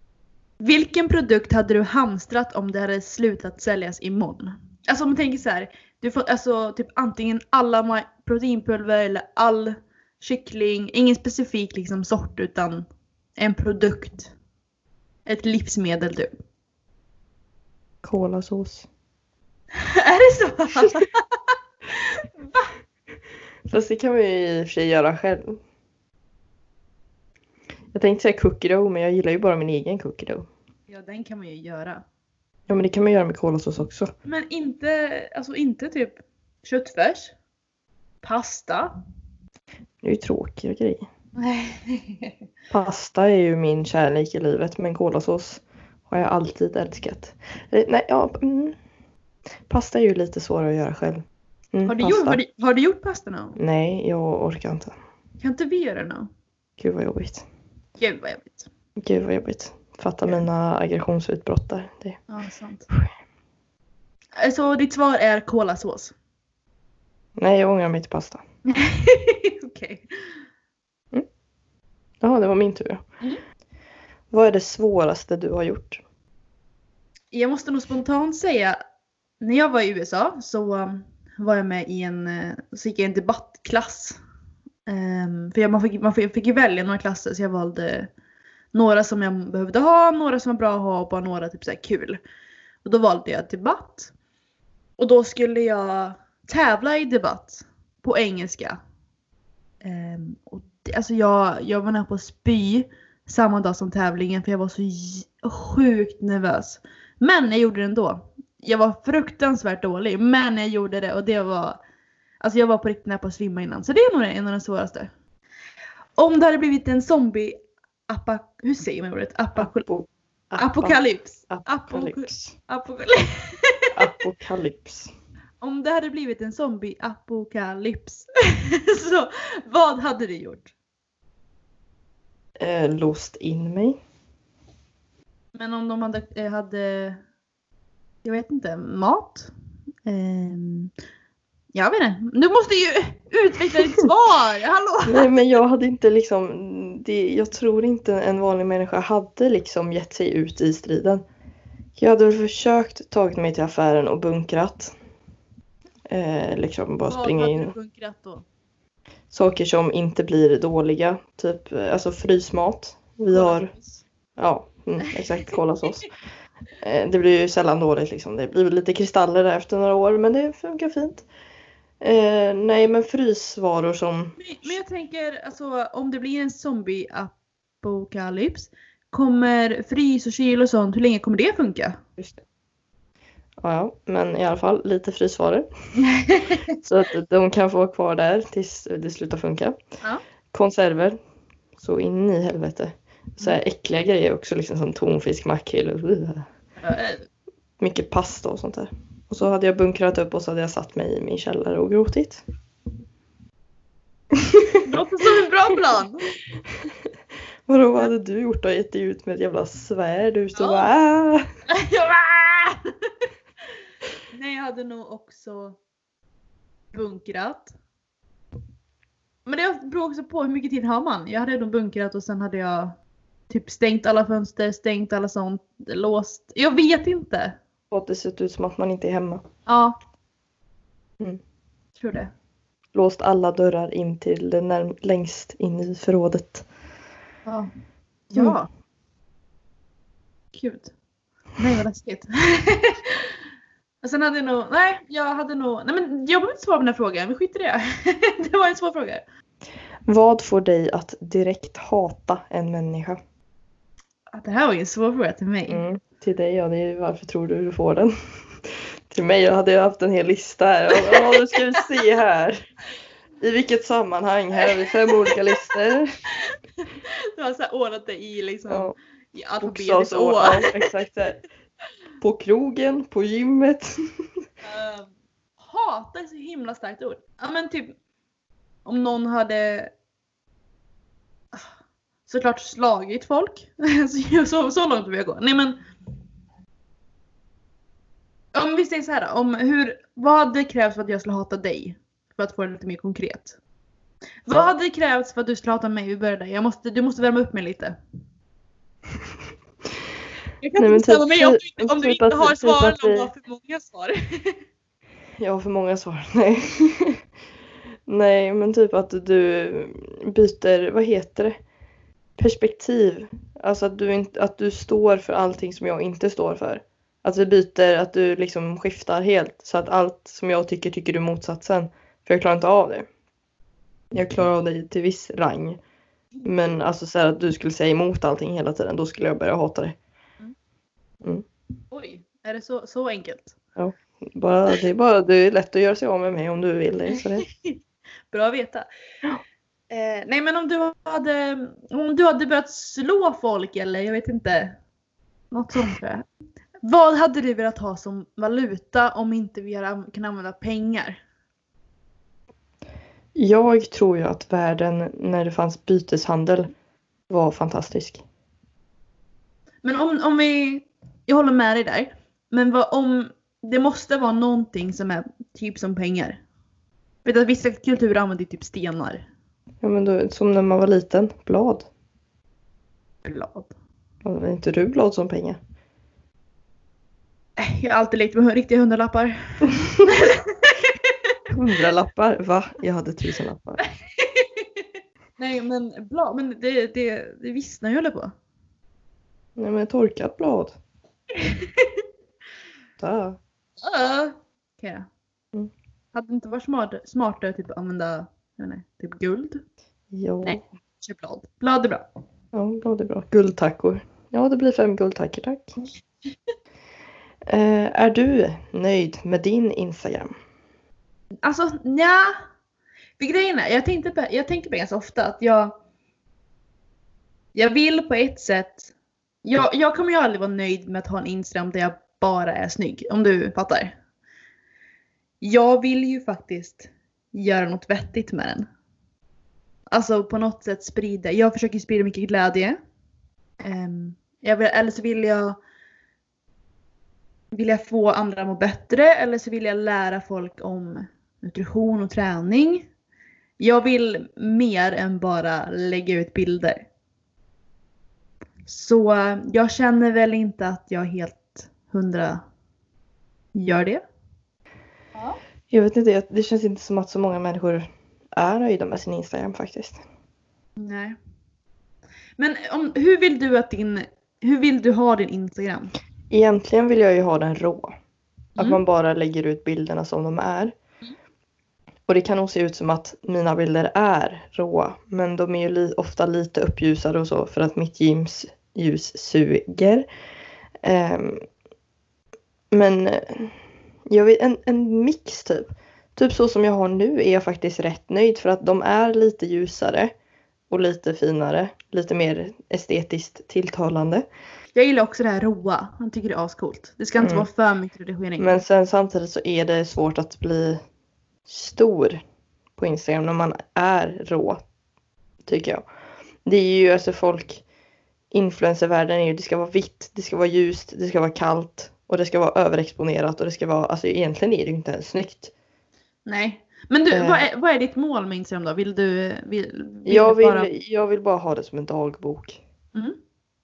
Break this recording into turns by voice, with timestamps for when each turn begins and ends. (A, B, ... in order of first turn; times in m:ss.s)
0:00.6-0:14.3 A
0:15.2-0:16.3 A
0:18.0-0:18.9 B
0:19.8-0:21.2 A
0:22.1-0:22.6 A
0:23.7-0:25.6 B
0:27.9-0:30.5 B
0:30.9-0:32.0 A
0:32.7-0:34.1 B
0:34.2-0:37.3 A
0:38.2-0:38.9 A
0:40.0-0:41.1 B
0:41.4-0:42.4 A
0:42.7-0:48.8 B
0:49.7-0:52.4 B
0:51.9-0:53.6 A
0:53.6-0:55.0 B
0:55.4-0:56.3 A
0:56.8-0:57.4 B
0:58.0-0:58.7 A
0:59.0-1:02.2 B
1:02.3-1:02.9 A
1:04.4-1:06.1 A
1:07.4-1:08.4 B
1:08.6-1:10.0 A
1:12.2-1:13.0 B
1:14.3-1:16.0 B
1:17.3-1:18.8 A
1:19.4-1:24.2 A
1:24.9-1:28.1 A
1:28.7-1:32.2 A
1:32.8-1:34.1 A
1:35.0-1:38.8 A
1:39.8-1:51.8 A
1:52.4-1:55.1 A
1:56.2-1:57.6 A
1:58.1-1:59.9 A
1:59.6-2:02.5 B
2:00.6-2:03.9 A
2:04.0-2:05.1 B
2:05.6-2:10.7 A
2:12.6-2:14.0 B
2:15.5-2:17.2 A
2:18.2-2:19.5 A
2:20.0-2:20.9 A
2:21.7-2:25.4 A
2:25.1-2:31.2 B
2:32.0-2:35.0 B
2:36.1-2:37.8 B
2:37.1-2:38.4 A
2:39.3-2:43.7 B
2:43.3-2:44.0 A
2:44.4-2:46.1 B
2:46.8-2:51.2 B
2:52.0-2:54.8 B
2:54.4-3:02.0 A
3:03.6-3:05.7 B
3:06.0-3:06.6 A
3:06.8-3:09.8 B
3:10.5-3:11.2 B
3:11.8-3:16.5 B
3:16.8-3:17.2 A
3:17.8-3:22.4 B
3:24.3-3:24.8 B
3:24.8-3:26.3 A
3:27.7-3:31.4 B
3:30.5-3:30.9 A
3:31.7-3:32.9 A
3:34.3-3:35.8 A
3:36.9-3:37.7 A
3:39.5-3:43.0 A
3:43.5-3:47.6 A
3:47.9-3:49.4 B
3:49.7-3:50.0 A
3:52.0-3:52.3 A
3:52.9-3:56.7 B
3:57.5-3:57.7 A
3:58.3-3:58.7 A
4:00.5-4:00.9 A
4:01.6-4:03.3 A
4:04.0-4:09.2 A
4:10.0-4:13.2 B
4:14.3-4:15.8 A
4:15.7-4:22.7 B
4:21.0-4:21.6 A
4:23.4-4:26.1 B
4:24.7-4:25.4 A
4:26.4-4:30.8 A
4:28.7-4:29.0 B
4:29.6-4:31.4 B
4:32.2-4:34.2 B
4:34.6-4:37.9 A
4:38.8-4:39.9 A
4:42.3-4:45.8 A
4:48.5-4:53.6 A
4:54.5-4:58.0 A
5:00.6-5:04.6 A
5:00.8-5:03.3 B
5:05.4-5:07.2 B
5:08.1-5:11.6 B
5:12.4-5:23.1 B
5:24.1-5:25.8 B
5:26.4-5:30.0 B
5:31.9-5:33.6 A
5:33.8-5:37.5 B
5:37.2-5:37.8 A
5:38.3-5:38.9 A
5:39.9-5:44.8 A
5:45.5-5:46.3 A
5:46.8-5:51.2 A
5:53.3-5:56.7 B
5:57.3-5:58.2 B
5:59.8-6:06.4 A
6:07.2-6:09.2 A
6:09.8-6:11.9 B
6:13.2-6:13.7 A
6:14.2-6:15.6 B
6:17.6-6:20.8 A
6:21.5-6:23.8 B
6:24.2-6:24.6 A
6:25.4-6:28.3 A
6:29.6-6:30.8 B
6:31.4-6:32.0 A
6:33.0-6:33.4 B
6:33.8-6:35.1 A
6:36.1-6:39.6 A
6:40.1-6:40.6 B
6:40.4-6:42.0 A
6:42.5-6:45.8 B
6:47.5-6:50.3 B
6:51.4-6:52.4 A
6:53.2-6:55.8 A
6:57.5-6:58.9 A
6:59.4-7:04.0 A
7:05.4-7:08.7 A
7:09.9-7:12.8 A
7:13.6-7:15.6 A
7:17.5-7:22.9 A
7:23.6-7:26.8 A
7:28.7-7:32.4 A
7:33.5-7:34.0 A
7:35.7-7:40.0 B
7:40.8-7:41.2 A
7:42.4-7:46.0 A
7:46.3-7:48.0 B
7:48.6-7:50.7 B
7:52.1-8:00.1 B
8:00.8-8:01.4 B
8:02.7-8:03.6 B
8:04.1-8:10.1 B
8:10.7-8:14.2 B
8:14.8-8:18.6 A
8:17.2-8:17.5 B
8:18.4-8:20.8 B
8:21.5-8:22.2 B
8:22.8-8:24.6 B
8:25.4-8:25.8 B
8:26.4-8:27.6 B
8:28.3-8:35.5 B
8:36.2-8:40.7 A
8:37.1-8:37.4 B
8:40.0-8:42.6 B